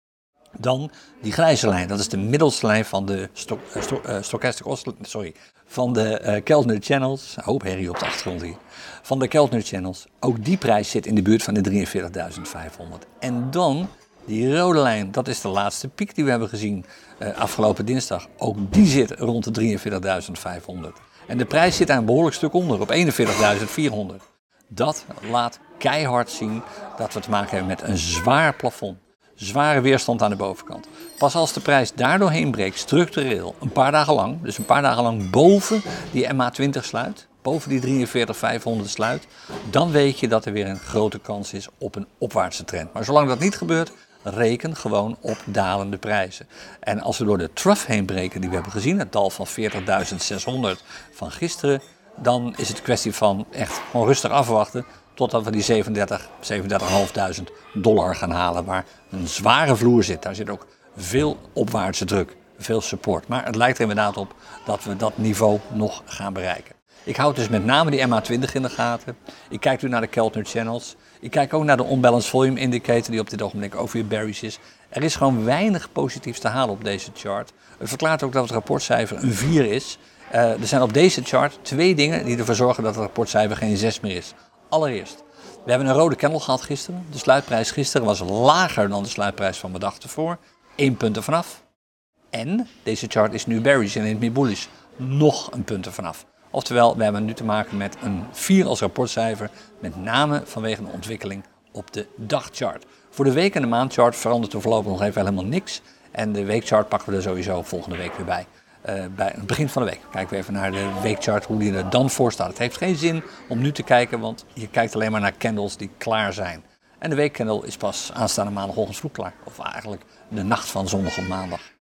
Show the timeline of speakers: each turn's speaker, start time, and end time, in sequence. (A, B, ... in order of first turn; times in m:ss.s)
0:00.6-1:31.6 A
1:32.3-2:01.7 A